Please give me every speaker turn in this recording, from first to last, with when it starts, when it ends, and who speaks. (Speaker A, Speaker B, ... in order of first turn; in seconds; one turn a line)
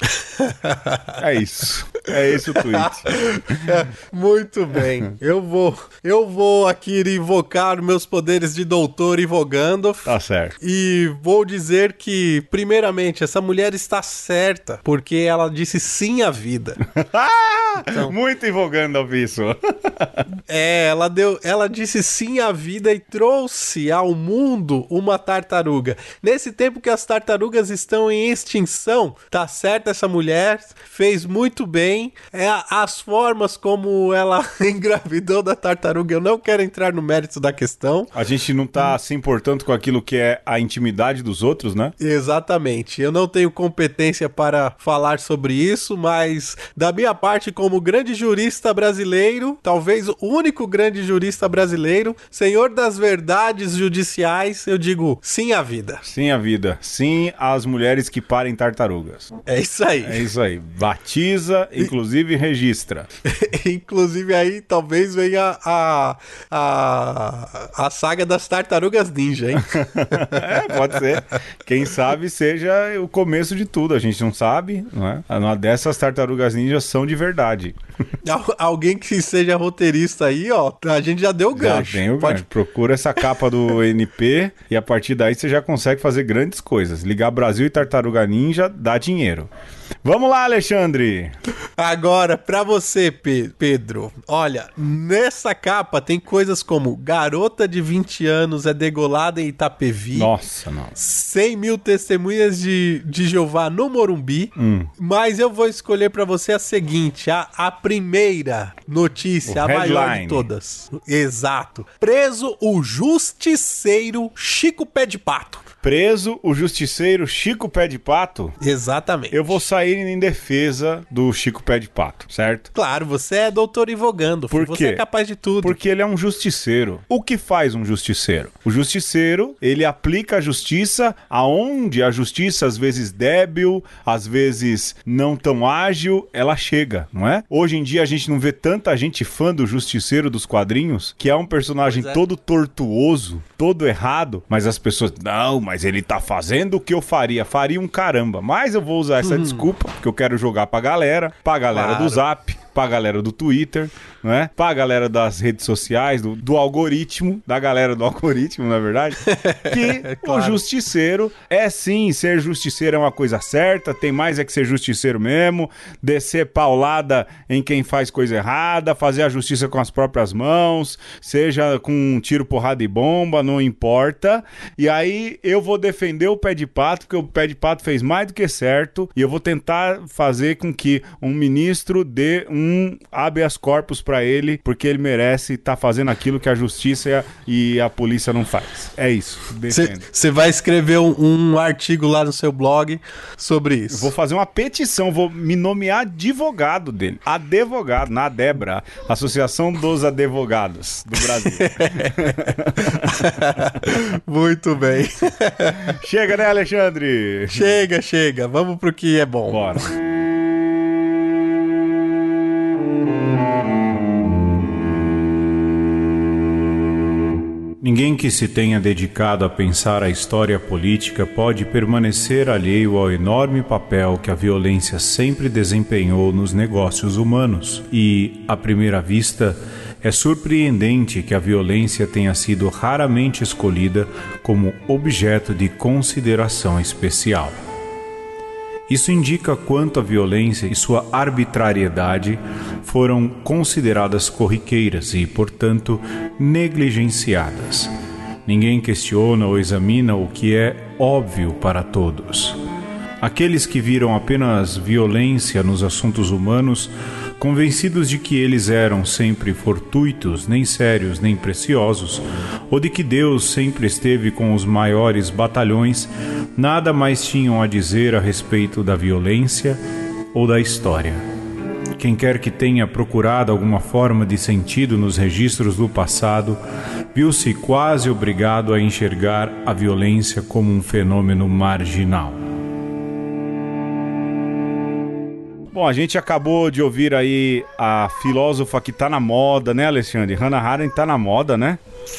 Speaker A: 0.4-1.1
Speaker B: 1.2-3.7
Speaker A: 2.5-16.8
Speaker B: 10.1-10.6
Speaker B: 16.9-20.2
Speaker A: 20.5-38.1
Speaker B: 38.1-41.9
Speaker A: 42.0-56.0
Speaker B: 56.0-59.3
Speaker A: 59.5-60.3
Speaker B: 60.0-63.1
Speaker A: 63.3-70.5
Speaker B: 69.7-77.8
Speaker A: 78.2-82.4
Speaker B: 81.5-89.5
Speaker B: 90.0-91.4
Speaker A: 91.8-100.3
Speaker B: 100.1-100.9
Speaker A: 101.0-115.7
Speaker B: 104.6-104.9
Speaker B: 109.5-110.5
Speaker B: 115.8-118.5
Speaker A: 118.6-119.6
Speaker B: 119.3-122.7
Speaker A: 122.8-125.8
Speaker B: 124.5-125.0
Speaker B: 125.6-190.0
Speaker A: 141.8-142.2
Speaker A: 149.3-149.6
Speaker A: 151.7-152.2
Speaker A: 159.3-160.6
Speaker A: 189.7-194.1
Speaker B: 193.9-203.2
Speaker A: 201.3-206.0
Speaker B: 205.9-207.8
Speaker A: 207.5-209.8
Speaker B: 209.5-209.9
Speaker B: 217.8-237.6
Speaker B: 238.9-247.9
Speaker B: 248.5-252.6
Speaker B: 253.2-269.8
Speaker B: 270.3-271.2
Speaker B: 272.0-276.6
Speaker B: 277.1-282.4
Speaker B: 285.7-291.8